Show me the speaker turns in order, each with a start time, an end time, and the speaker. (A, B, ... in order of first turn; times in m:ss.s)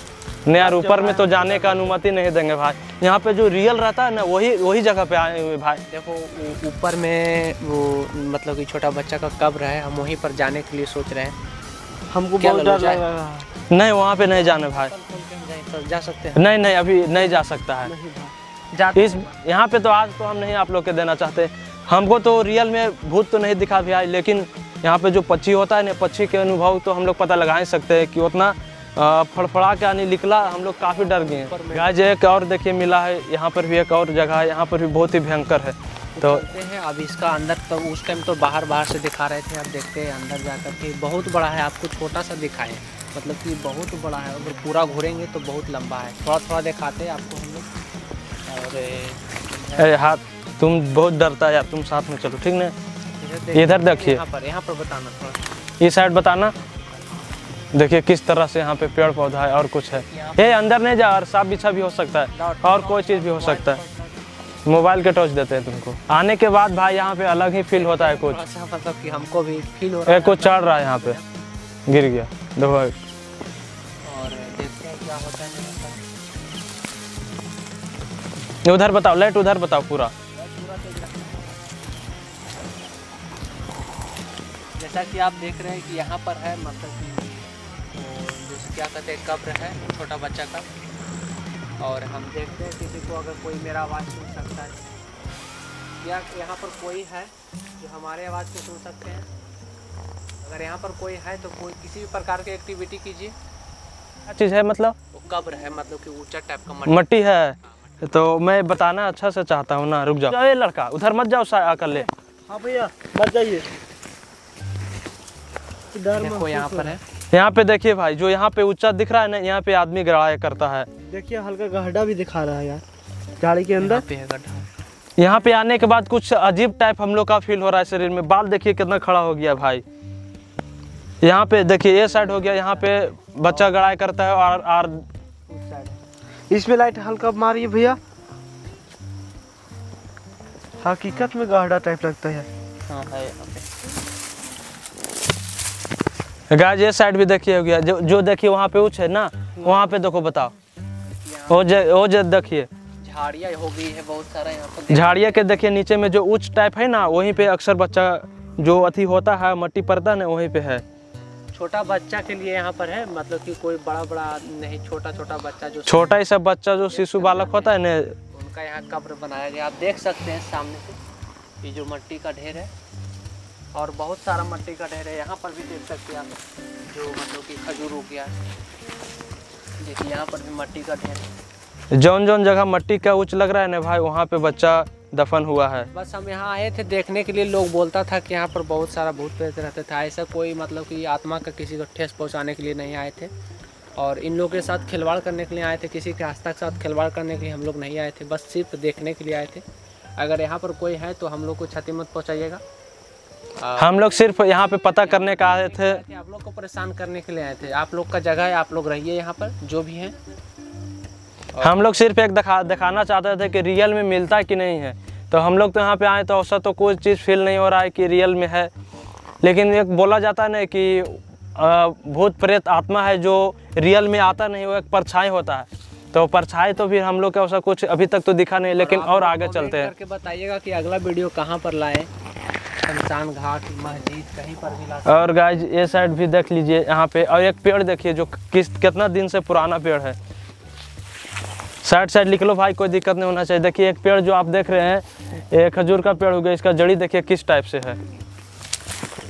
0:00.5-0:05.8 A
0:00.6-0:01.8 B
0:05.9-0:11.4 C
0:12.1-0:13.5 B
0:12.4-0:13.0 C
0:13.7-0:14.9 A
0:14.2-0:16.5 C
0:16.4-0:17.9 A
0:17.8-0:18.3 B
0:18.7-0:19.3 C
0:18.9-0:36.5 A
0:30.5-0:32.0 C
0:36.2-0:47.7 C
0:48.5-0:50.0 C
0:49.8-0:52.8 A
0:53.2-0:55.5 C
0:53.5-0:54.2 A
0:55.8-0:56.5 A
0:57.7-1:03.8 A
1:00.1-1:00.4 C
1:02.3-1:04.2 C
1:04.7-1:08.4 A
1:07.7-1:11.2 C
1:10.1-1:11.2 A
1:11.9-1:13.0 A
1:14.0-1:16.0 C
1:18.6-1:20.1 A
1:20.4-1:21.6 C
1:24.8-1:30.7 C
1:31.8-1:34.8 C
1:36.0-1:39.3 C
1:40.4-1:43.4 C
1:44.3-1:45.0 A
1:45.1-1:47.2 C
1:46.9-1:52.1 A
1:52.5-1:53.7 B
1:55.9-1:56.9 B
1:56.1-1:57.0 C
1:57.3-2:00.9 A
2:01.1-2:02.8 B
2:03.4-2:04.0 B
2:03.7-2:04.7 C
2:05.2-2:09.8 A
2:11.2-2:15.0 A
2:11.9-2:13.8 C
2:15.5-2:16.0 C
2:16.5-2:18.0 B
2:20.8-2:22.5 B
2:22.9-2:23.7 C
2:26.5-2:30.5 A
2:31.0-2:31.9 C
2:31.5-2:32.7 A
2:33.0-2:35.4 C
2:34.9-2:40.8 A
2:41.5-2:46.2 C
2:45.9-2:48.1 A
2:46.9-2:51.0 C
2:51.6-2:52.7 C
2:53.7-2:58.3 C
2:59.8-3:01.3 C
3:01.9-3:05.9 A
3:05.9-3:13.3 C
3:14.0-3:19.6 C
3:20.2-3:22.6 C
3:23.6-3:24.2 C
3:23.8-3:26.0 A
3:24.9-3:30.2 C
3:31.5-3:31.9 C
3:31.6-3:38.7 A
3:39.4-3:49.9 A
3:48.7-3:52.1 C
3:52.8-3:55.4 C
3:55.1-4:00.2 A
4:01.8-4:08.0 A